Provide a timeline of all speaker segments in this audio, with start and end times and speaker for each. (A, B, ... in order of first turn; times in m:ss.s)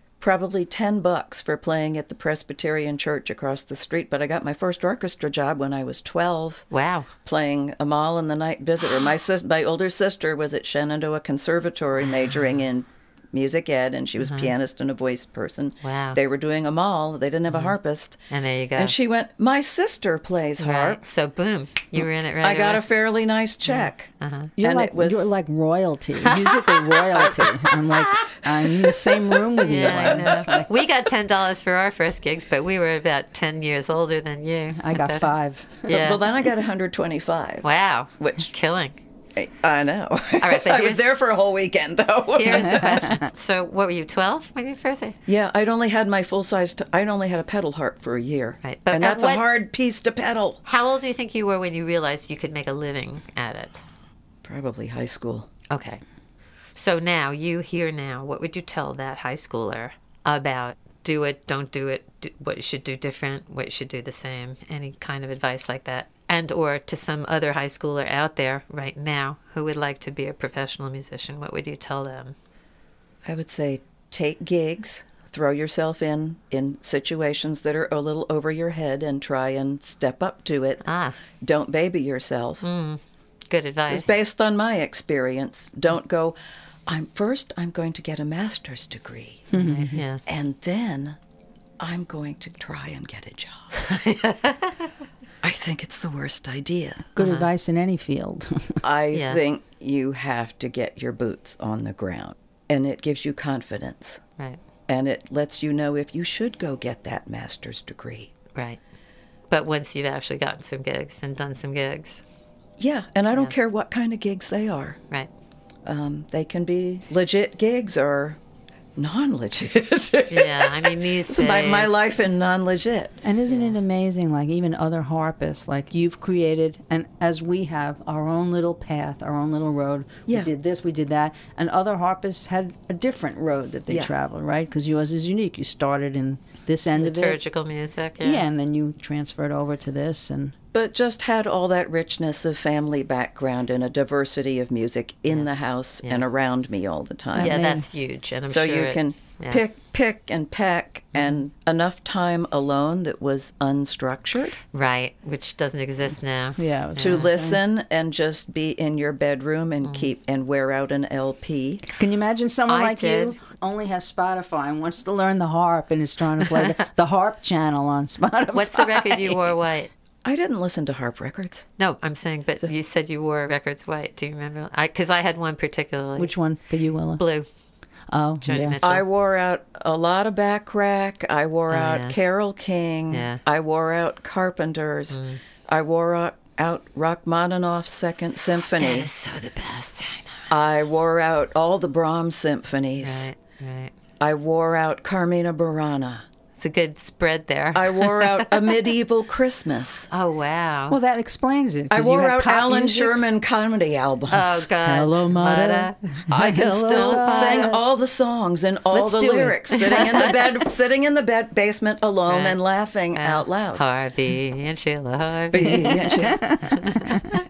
0:00.2-0:06.6 A
0:06.7-0:07.1 B
0:07.2-0:18.2 A
0:14.2-0:14.5 B
0:15.8-0:16.2 B
0:17.5-0:17.7 B
0:18.3-0:19.0 B
0:18.8-0:21.0 A
0:20.6-0:22.8 B
0:22.0-0:25.3 A
0:23.7-0:24.5 B
0:24.6-0:30.7 C
0:26.2-0:28.4 B
0:29.5-0:35.3 B
0:29.8-0:30.5 A
0:34.8-0:35.9 C
0:35.9-0:36.2 B
0:35.9-0:37.7 A
0:37.6-0:39.0 B
0:38.2-0:38.5 A
0:39.3-0:43.1 A
0:40.4-0:41.0 B
0:42.3-0:45.2 B
0:45.3-0:50.6 A
0:48.6-0:49.4 B
0:50.6-0:53.8 B
0:54.4-0:55.5 A
0:55.7-0:56.0 B
0:56.8-1:12.3 B
1:13.2-1:20.8 A
1:20.8-1:21.2 B
1:21.4-1:22.6 A
1:22.6-1:24.2 B
1:23.8-1:26.4 A
1:26.9-1:29.5 A
1:29.5-1:30.0 C
1:29.5-1:30.2 B
1:30.2-1:31.2 A
1:31.8-1:33.8 A
1:33.8-1:34.9 B
1:35.4-1:37.1 A
1:37.1-1:38.8 C
1:37.2-1:37.5 B
1:38.8-1:44.2 A
1:39.1-1:39.4 B
1:44.9-1:48.3 A
1:49.5-1:52.2 B
1:52.8-1:55.0 A
1:55.8-1:58.4 A
1:59.0-2:03.2 A
2:00.3-2:02.0 B
2:03.2-2:17.4 C
2:13.9-2:14.1 A
2:17.0-2:18.4 B
2:18.2-2:20.5 C
2:20.7-2:27.6 A
2:27.3-2:27.9 C
2:27.3-2:29.6 B
2:28.5-2:34.6 A
2:31.1-2:31.4 B
2:34.7-2:37.3 B
2:36.6-2:37.6 C
2:37.0-2:41.8 A
2:42.0-2:49.4 C
2:42.7-2:43.4 B
2:48.5-2:49.9 B
2:50.2-2:51.6 A
2:51.8-2:56.3 B
2:56.2-2:57.2 C
2:57.2-2:57.5 B
2:58.1-2:58.8 C
2:58.4-2:59.0 B
2:58.8-3:09.1 A
3:01.7-3:02.2 B
3:03.1-3:03.4 B
3:05.1-3:05.4 B
3:08.6-3:10.5 B
3:10.5-3:13.3 A
3:13.0-3:13.9 B
3:14.2-3:16.2 A
3:16.6-3:18.7 B
3:17.7-3:20.1 A
3:20.1-3:21.0 B
3:20.9-3:23.2 C
3:21.9-3:24.7 A
3:24.3-3:26.0 B
3:24.8-3:27.8 C
3:26.3-3:33.8 A
3:26.8-3:27.7 B
3:28.9-3:30.0 C
3:29.8-3:30.5 B
3:32.3-3:32.6 B
3:33.1-3:37.2 B
3:35.5-3:36.4 A
3:35.6-3:37.2 C